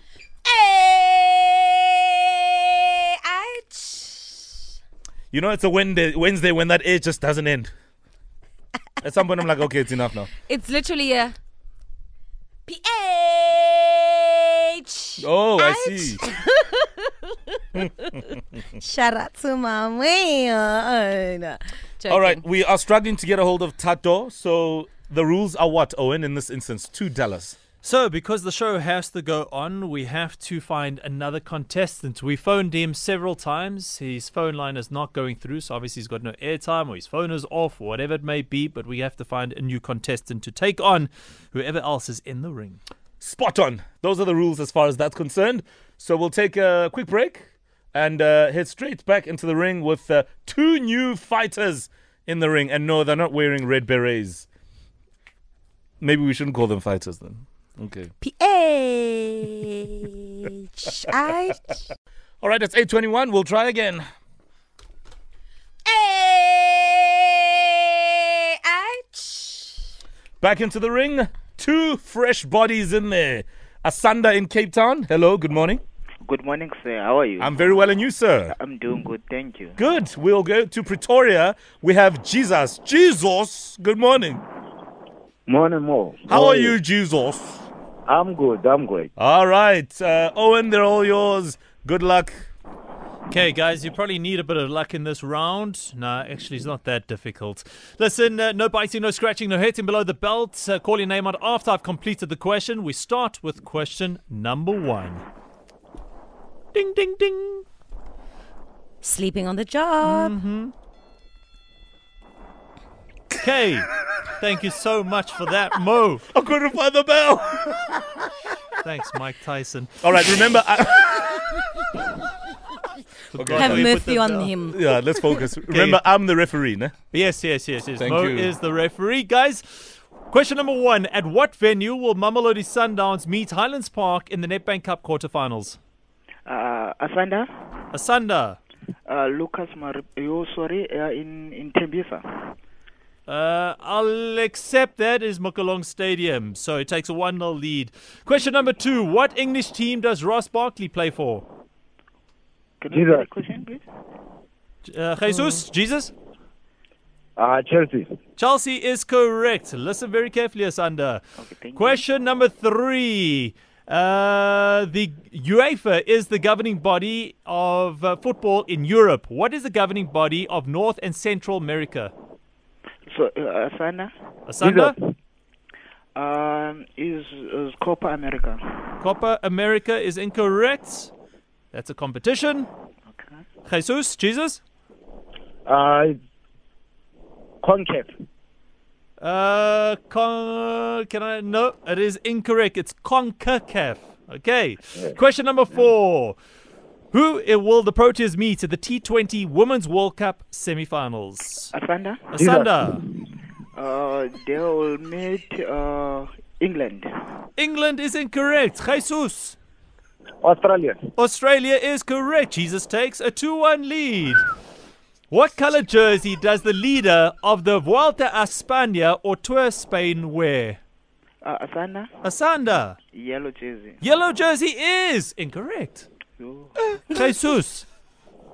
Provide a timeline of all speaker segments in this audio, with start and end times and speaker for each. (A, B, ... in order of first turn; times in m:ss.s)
0:00.4-0:04.6 A
0:05.3-0:07.7 B
0:09.0-0:10.3 B
0:10.3-0:11.3 A
0:12.7-0:22.4 A
0:15.2-0:16.2 B
0:22.1-0:27.6 B
0:27.8-0:42.8 C
0:43.2-0:54.5 B
0:56.0-0:58.1 B
0:58.2-1:01.9 A
1:02.4-1:04.0 B
1:05.8-1:09.9 A
1:10.4-1:15.8 B
1:16.2-1:17.6 D
1:17.4-1:18.5 B
1:18.5-1:19.8 D
1:19.8-1:24.4 B
1:25.5-1:26.8 E
1:26.3-1:27.7 B
1:28.1-1:29.1 E
1:29.2-1:32.5 B
1:33.3-1:45.2 C
1:46.7-1:47.6 C
1:49.0-1:50.3 A
1:50.0-1:50.7 C
1:53.4-1:56.2 C
1:56.3-1:58.2 B
1:58.8-2:00.3 C
2:00.0-2:01.5 B
2:03.3-2:04.5 C
2:03.3-2:03.9 B
2:03.6-2:05.4 A
2:04.7-2:06.9 B
2:05.7-2:06.0 C
2:07.1-2:15.8 C
2:08.0-2:08.5 B
2:16.4-2:17.5 D
2:17.9-2:18.6 C
2:19.1-2:22.4 D
2:23.3-2:31.4 C
2:32.8-2:33.8 D
2:32.9-2:33.3 E
2:34.8-2:36.1 C
2:37.4-2:38.1 E
2:38.4-2:41.2 C
2:41.4-2:42.0 D
2:41.7-2:52.1 C
2:53.1-2:54.1 D
2:54.5-2:54.9 C
2:54.6-2:55.0 E
2:56.2-2:58.9 D
2:59.0-3:01.1 C
3:01.7-3:02.7 C
3:03.1-3:03.4 D
3:03.6-3:04.6 C
3:05.6-3:06.2 E
3:07.6-3:08.1 E
3:09.2-3:16.4 C
3:17.1-3:21.7 C
3:21.7-3:22.3 D
3:22.3-3:23.0 C
3:22.4-3:22.9 E
3:23.8-3:27.1 D
3:27.6-3:29.6 C
3:30.4-3:31.0 E
3:31.2-3:34.4 C
3:35.3-3:40.8 C
3:41.4-3:42.1 D
3:42.2-3:43.0 C
3:43.1-3:44.0 D
3:44.0-3:46.0 C
3:46.4-3:47.1 D
3:46.9-3:47.8 C